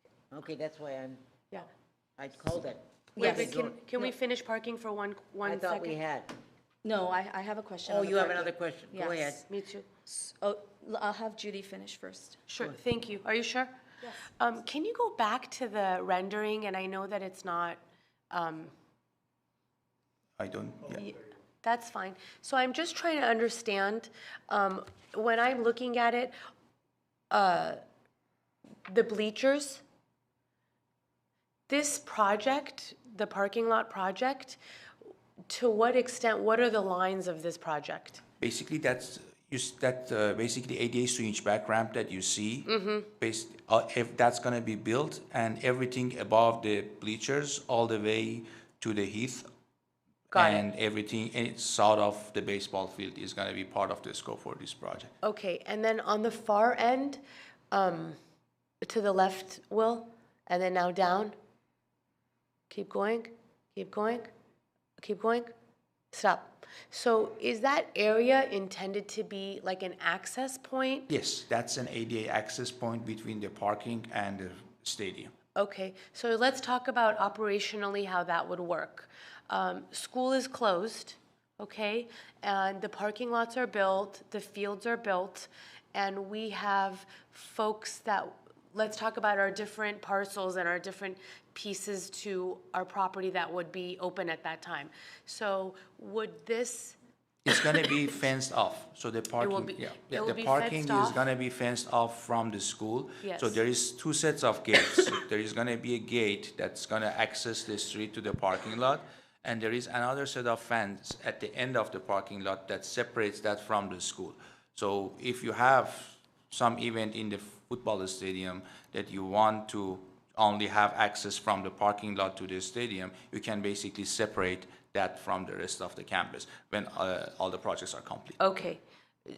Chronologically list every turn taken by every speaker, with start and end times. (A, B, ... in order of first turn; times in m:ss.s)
0:00.3-0:01.2 A
0:02.2-0:03.8 A
0:03.2-0:06.0 B
0:03.2-0:04.1 C
0:05.4-0:06.3 A
0:06.8-0:09.4 C
0:07.9-0:09.4 A
0:09.5-0:09.9 B
0:10.1-0:12.4 C
0:12.5-0:13.7 B
0:14.4-0:18.7 B
0:20.4-0:21.0 D
0:20.9-0:26.3 B
0:27.3-0:27.8 B
0:28.9-0:29.8 B
0:31.7-0:34.6 B
0:35.5-0:38.2 B
0:38.4-0:49.5 D
0:42.7-0:43.1 B
0:50.3-0:55.1 D
0:50.3-0:50.7 B
0:55.2-0:58.2 B
0:58.8-1:01.4 B
1:02.7-1:04.3 B
1:05.0-1:05.5 B
1:06.1-1:11.1 B
1:11.1-1:15.3 D
1:15.6-1:37.0 B
1:37.4-2:08.4 D
1:39.4-1:41.2 B
1:43.2-1:43.6 B
2:08.4-2:08.8 B